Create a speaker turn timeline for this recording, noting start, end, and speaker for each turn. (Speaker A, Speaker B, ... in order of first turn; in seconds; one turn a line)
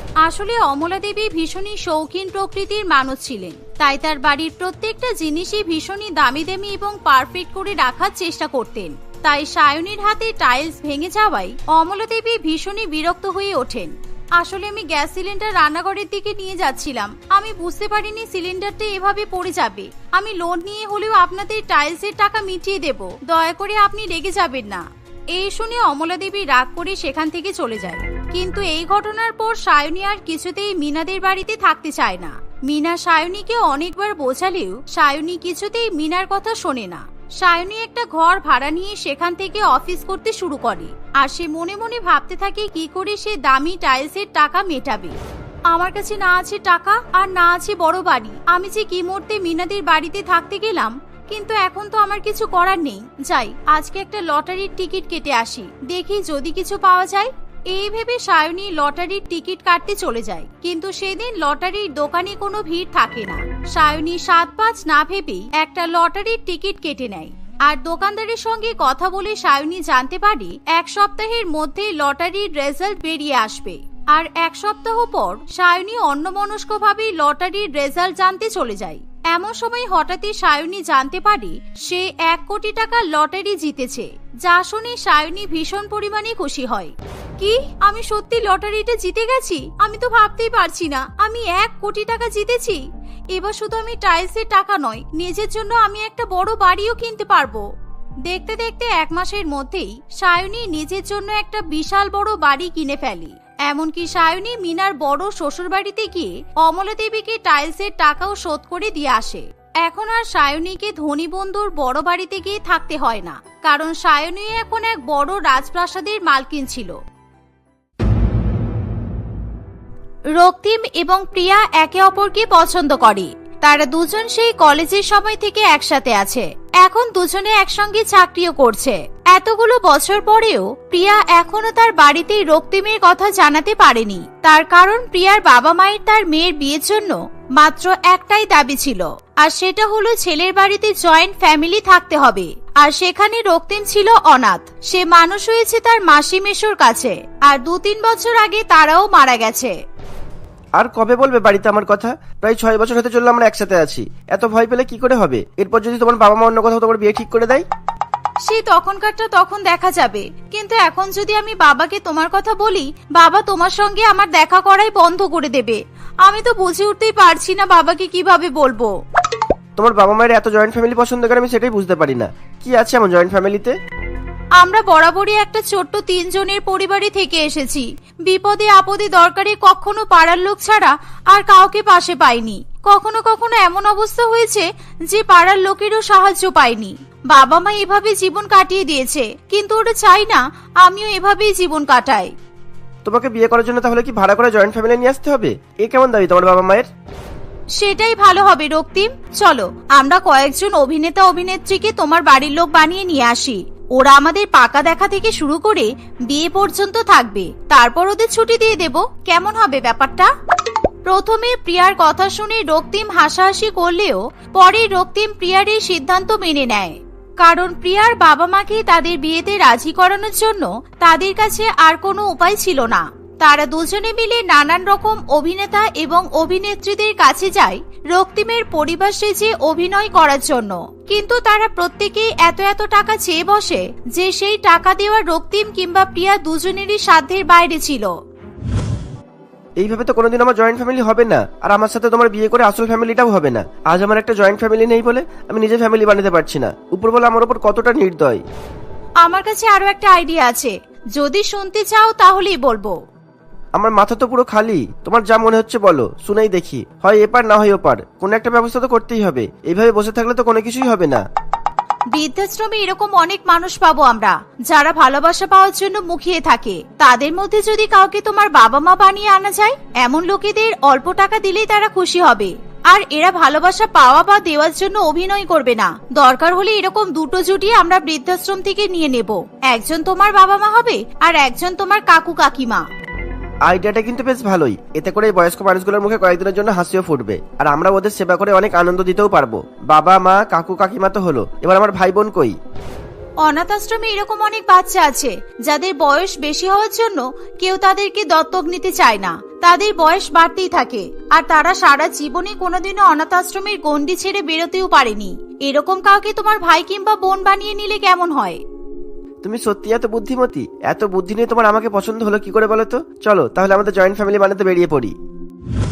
Speaker A: 0.2-45.2
Speaker A: 45.7-97.7
Speaker A: 98.2-117.0
Speaker A: 120.3-149.8
Speaker B: 150.8-157.7
Speaker A: 158.4-168.9
Speaker B: 169.8-173.7
Speaker A: 174.6-192.3
Speaker B: 193.1-196.9
Speaker A: 197.8-210.3
Speaker A: 211.1-238.2
Speaker B: 239.8-248.4
Speaker A: 249.2-253.0
Speaker B: 253.8-261.2
Speaker A: 262.1-282.9
Speaker B: 283.7-292.6
Speaker A: 293.4-308.6
Speaker B: 309.4-315.1